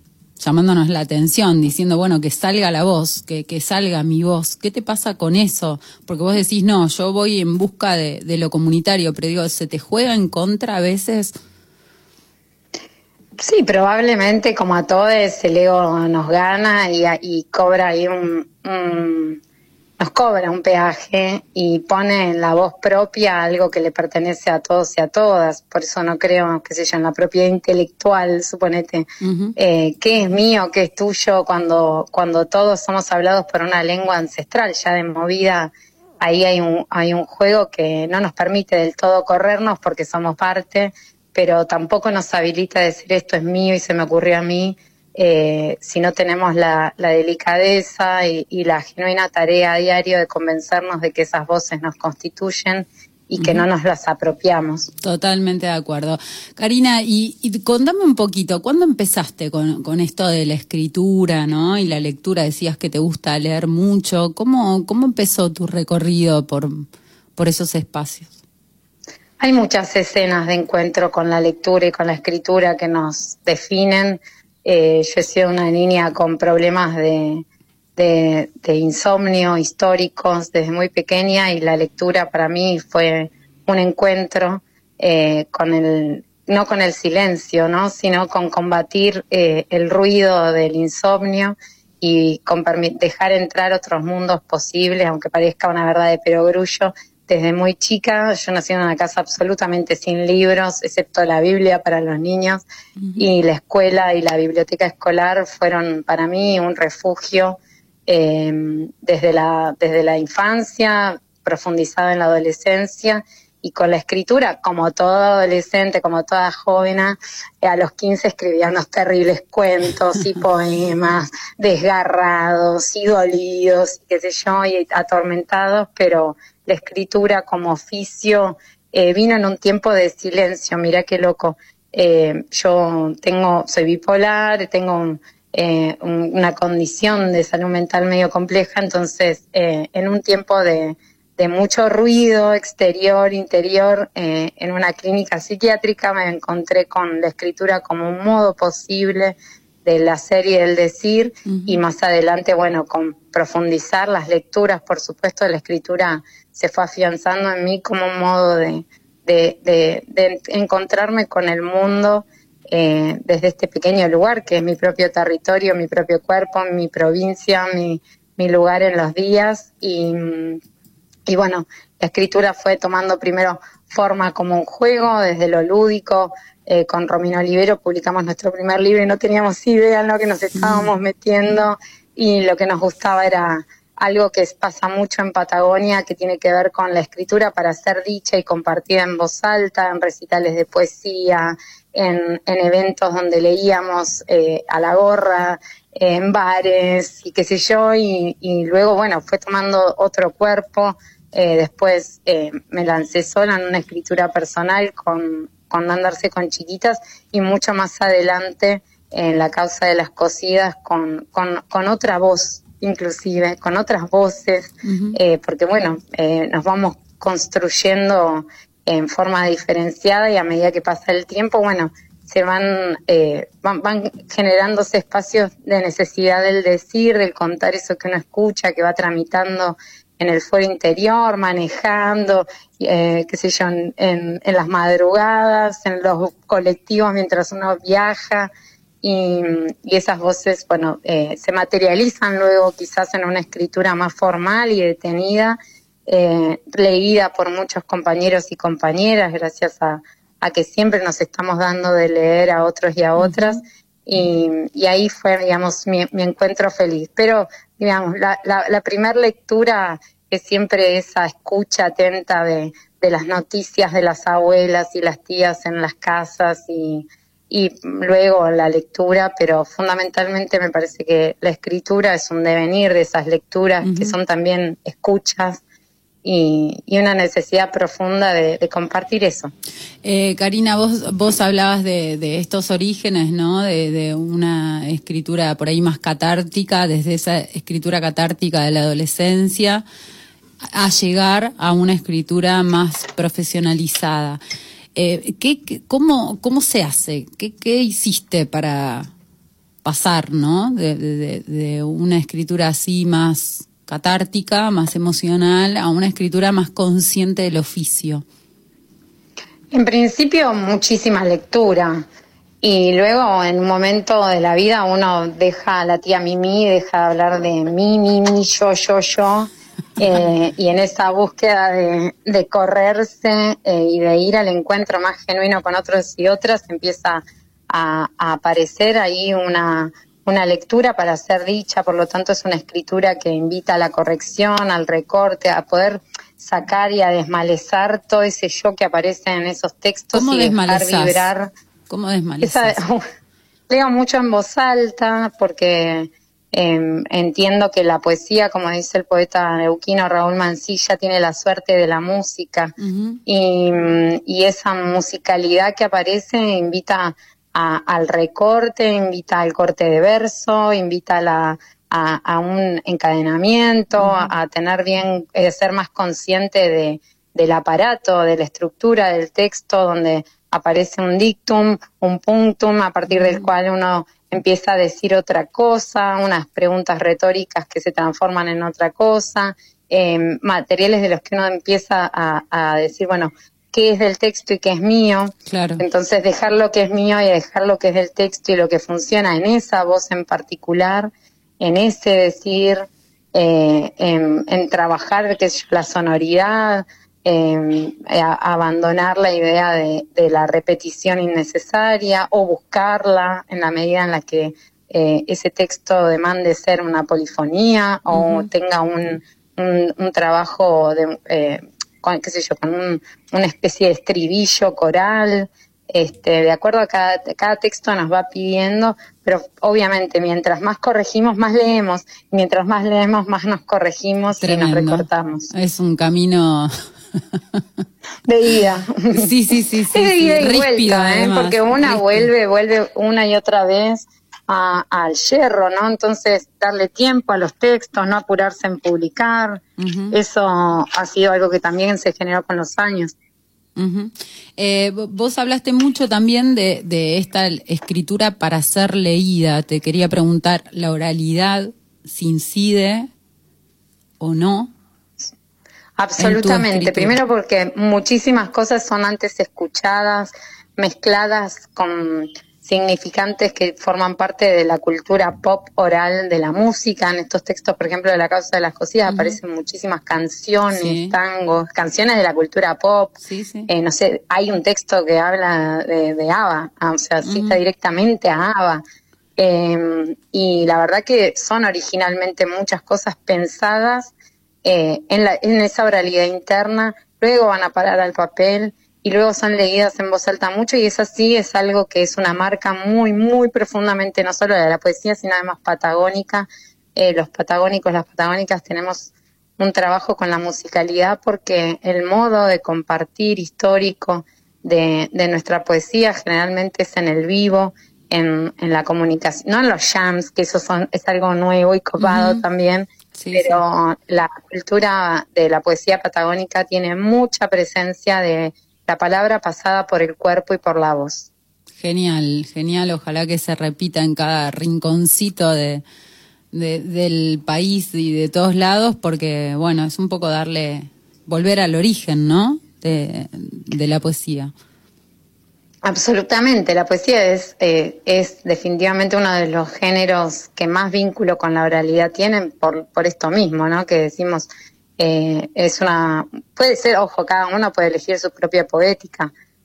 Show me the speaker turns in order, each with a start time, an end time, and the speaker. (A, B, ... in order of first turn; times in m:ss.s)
0:00.4-0:11.3 A
0:13.4-0:19.4 B
0:20.0-0:54.9 B
0:29.2-0:29.6 A
0:53.4-0:53.6 A
0:55.0-1:08.3 A
1:09.4-1:17.4 B
1:18.0-1:42.6 B
1:43.0-1:43.2 A
1:43.2-2:50.6 B
2:31.4-2:31.8 A
2:51.3-3:58.5 B
3:00.6-3:00.9 A
3:34.8-3:35.2 A
3:59.0-4:35.6 B
4:13.2-4:13.6 A
4:33.8-4:34.2 A
4:36.2-4:39.5 B
4:40.0-4:49.8 A
4:50.7-4:54.4 A
4:54.9-4:59.1 A
4:59.8-5:08.2 A
5:09.7-5:12.0 B
5:12.6-5:41.5 B
5:40.1-5:41.3 A
5:41.9-5:42.8 A
5:42.4-5:43.0 B
5:43.7-5:52.7 B
5:52.8-5:53.2 A
5:53.2-6:31.1 B
6:04.0-6:04.3 A
6:13.1-6:13.5 A
6:25.5-6:25.8 A
6:31.6-7:05.5 B
6:48.1-6:48.5 A
7:04.4-7:06.7 A
7:07.3-7:07.6 A
7:08.2-7:09.3 B
7:09.1-7:12.3 A
7:09.9-7:23.1 B
7:19.8-7:20.2 A
7:23.8-7:33.1 A
7:34.2-7:34.7 A
7:36.0-7:53.1 B
7:36.2-7:37.2 A
7:49.1-7:49.4 A
7:50.7-7:51.2 A
7:53.2-7:53.7 A
7:53.7-7:58.8 B
7:57.2-7:57.6 A
7:59.4-8:04.1 B
8:04.6-8:41.3 B
8:32.0-8:32.4 A
8:33.1-8:33.6 A
8:41.8-8:45.8 A
8:46.5-8:54.5 A
8:55.8-9:04.5 B
9:05.0-9:09.3 B